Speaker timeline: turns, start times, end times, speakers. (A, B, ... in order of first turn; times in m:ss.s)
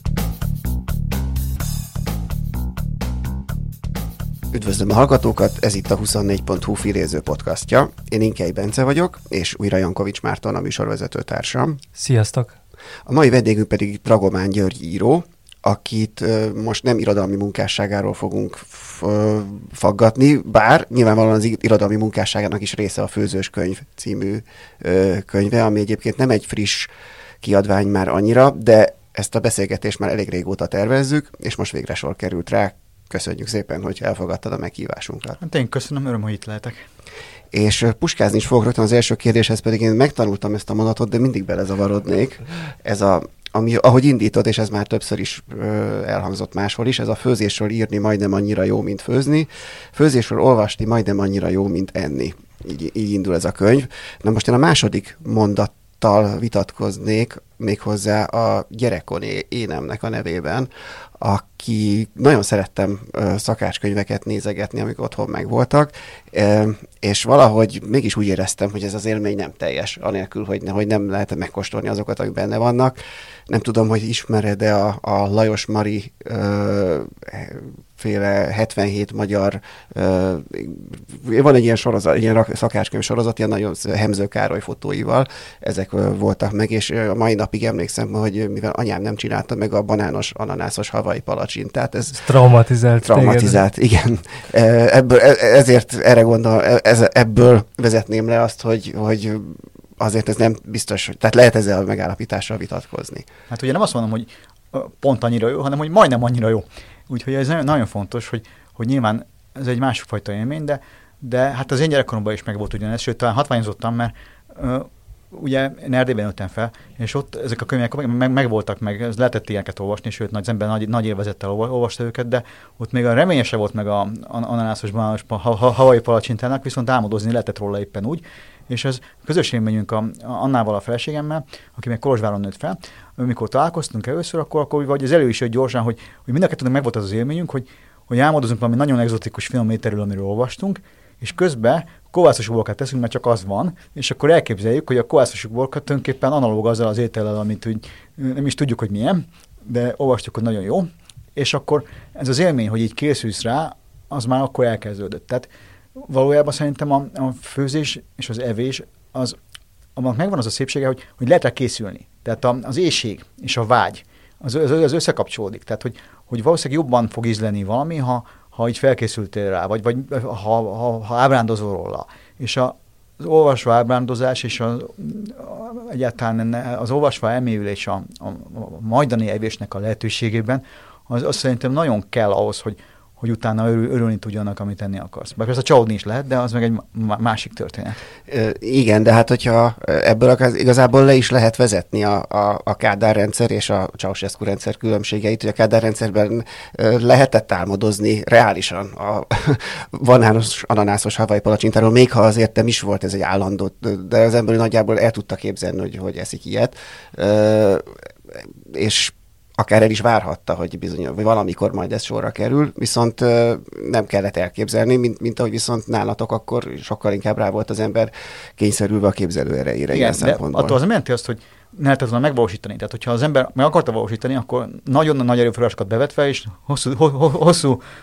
0:04.5-0:11.8 A
0:12.0-0:12.6 B
0:13.1-0:26.9 A
0:27.4-0:35.4 A
0:35.4-0:36.8 C
0:37.5-1:13.0 A
1:13.5-1:32.2 A
1:32.1-1:33.6 B
1:33.0-1:43.3 A
1:43.5-2:39.4 C
2:40.0-3:08.0 C
3:08.3-3:40.8 A
3:39.9-3:47.8 C